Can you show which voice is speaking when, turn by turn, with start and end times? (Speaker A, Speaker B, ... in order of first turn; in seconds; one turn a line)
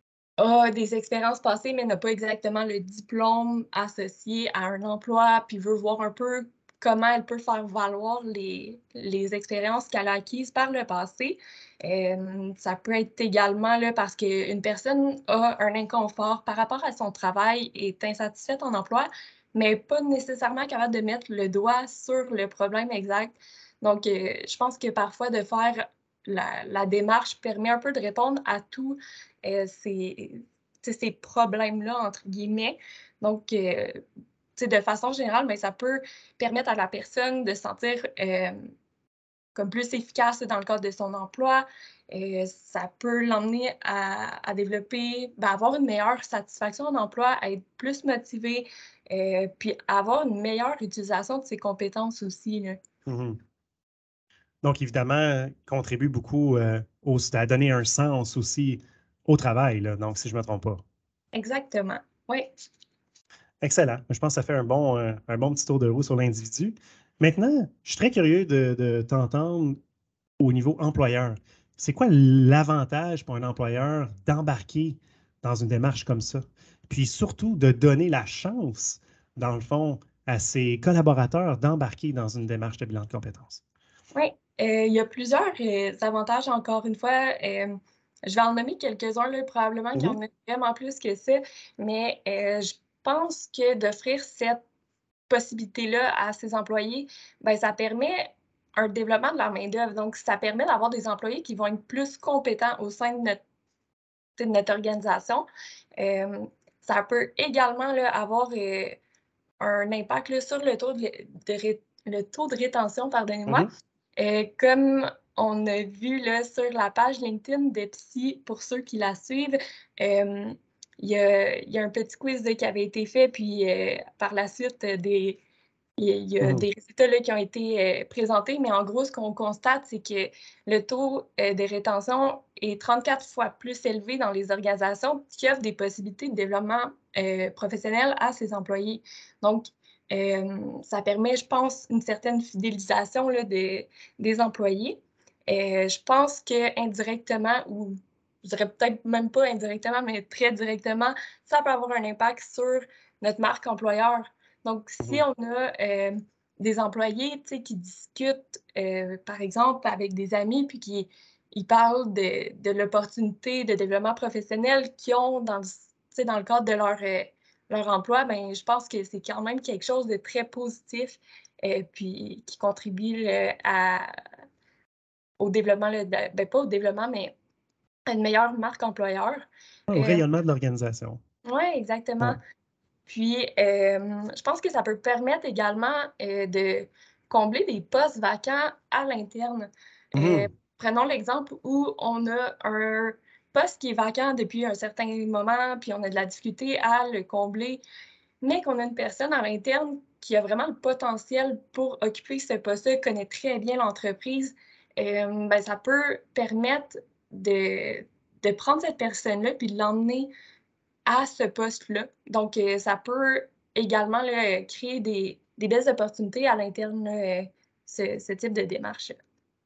Speaker A: 0.4-34.0
Speaker A: 34.5-38.6
Speaker A: 39.5-52.8
Speaker B: 53.0-53.4
Speaker B: 54.6-60.8
Speaker A: 61.3-62.5
Speaker B: 63.6-69.8
Speaker B: 70.4-83.6
Speaker A: 84.1-94.6
Speaker A: 95.3-103.4
Speaker A: 104.3-105.5
Speaker A: 106.0-109.0
Speaker A: 109.6-125.4
Speaker A: 126.0-174.1
Speaker A: 175.4-177.3
Speaker A: 178.1-180.2
Speaker B: 179.9-181.2
Speaker A: 181.4-182.4
Speaker A: 183.1-197.8
Speaker B: 190.1-190.5
Speaker A: 198.4-210.3
Speaker A: 211.1-219.2